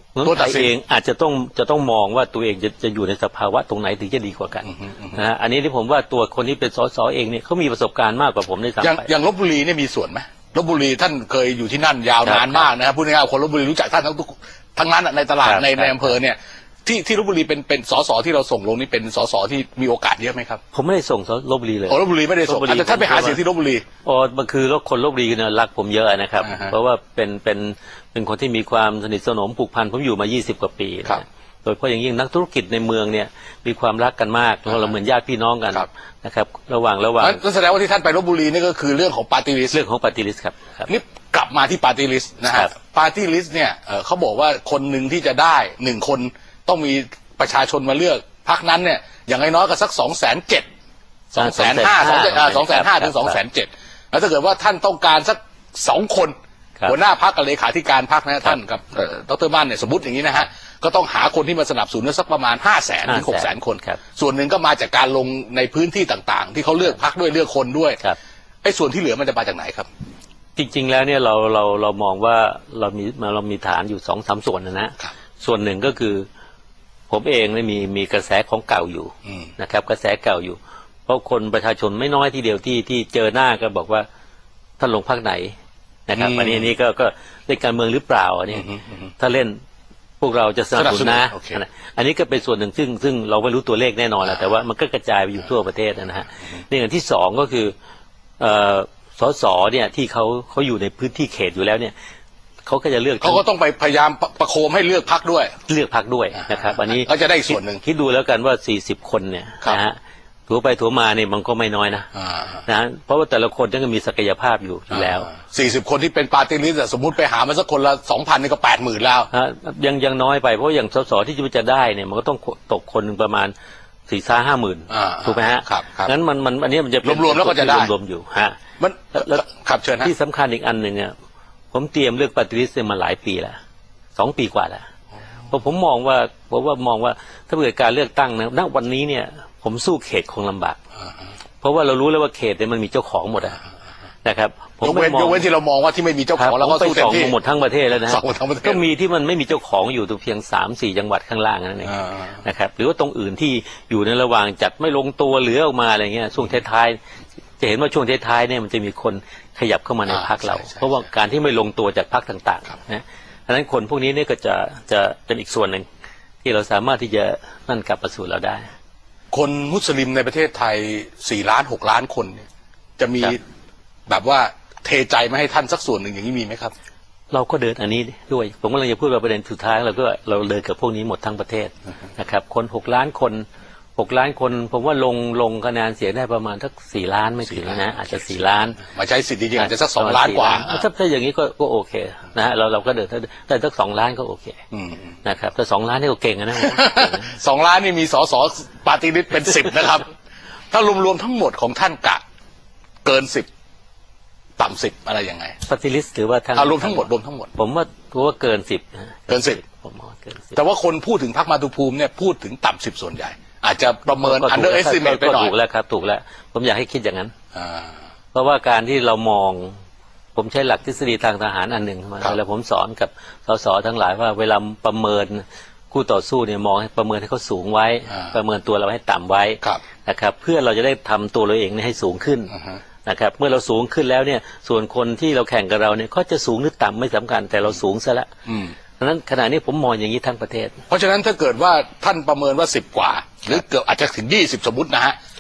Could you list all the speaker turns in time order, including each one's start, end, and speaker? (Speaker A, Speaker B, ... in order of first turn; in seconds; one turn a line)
Speaker A: 0.1-9.1
Speaker B: 0.2-0.7
Speaker B: 4.7-5.2
Speaker B: 8.8-20.6
Speaker A: 12.2-12.7
Speaker A: 15.4-16.1
Speaker A: 20.7-23.4
Speaker B: 21.9-23.8
Speaker A: 24.1-37.4
Speaker B: 26.4-26.7
Speaker B: 34.7-34.9
Speaker B: 37.2-39.8
Speaker A: 39.7-40.9
Speaker B: 40.9-50.7
Speaker B: 51.3-56.4
Speaker A: 51.4-53.4
Speaker B: 56.9-68.0
Speaker A: 63.1-64.0
Speaker B: 68.6-69.9
Speaker A: 70.6-76.3
Speaker A: 77.1-84.1
Speaker A: 84.8-85.5
Speaker A: 86.1-89.6
Speaker B: 86.1-86.7
Speaker B: 88.5-88.9
Speaker A: 90.2-97.7
Speaker B: 90.8-91.6
Speaker A: 98.4-101.9
Speaker A: 102.7-103.4
Speaker B: 103.2-105.5
Speaker A: 105.7-110.0
Speaker B: 106.4-107.8
Speaker A: 110.5-112.1
Speaker B: 112.2-112.6
Speaker A: 112.7-115.3
Speaker B: 114.9-119.3
Speaker A: 119.3-123.5
Speaker A: 124.1-128.6
Speaker B: 124.9-126.1
Speaker B: 127.0-127.9
Speaker B: 128.8-130.1
Speaker A: 129.2-129.4
Speaker A: 130.0-131.1
Speaker A: 131.7-133.6
Speaker A: 134.2-134.8
Speaker A: 135.5-140.8
Speaker A: 141.6-143.6
Speaker A: 144.2-145.5
Speaker B: 144.8-147.4
Speaker A: 146.4-157.0
Speaker B: 148.1-148.8
Speaker B: 151.9-152.3
Speaker A: 157.6-165.8
Speaker B: 160.1-160.9
Speaker A: 166.4-168.7
Speaker B: 169.3-172.5
Speaker B: 173.0-173.4
Speaker B: 174.1-176.7
Speaker A: 177.3-183.4
Speaker A: 184.0-188.8
Speaker B: 187.5-190.9
Speaker A: 189.6-194.6
Speaker B: 194.7-195.1
Speaker A: 195.2-197.4
Speaker B: 196.6-200.1
Speaker B: 200.7-202.2
Speaker B: 203.1-203.5
Speaker B: 204.6-205.6
Speaker A: 205.7-210.6
Speaker B: 206.6-207.5
Speaker B: 209.3-209.6
Speaker B: 210.5-215.6
Speaker A: 214.1-217.3
Speaker B: 217.5-217.9
Speaker A: 218.3-219.8
Speaker A: 220.3-232.5
Speaker B: 232.5-232.8
Speaker A: 233.1-238.3
Speaker B: 238.5-238.7
Speaker A: 239.0-240.8
Speaker B: 240.9-245.2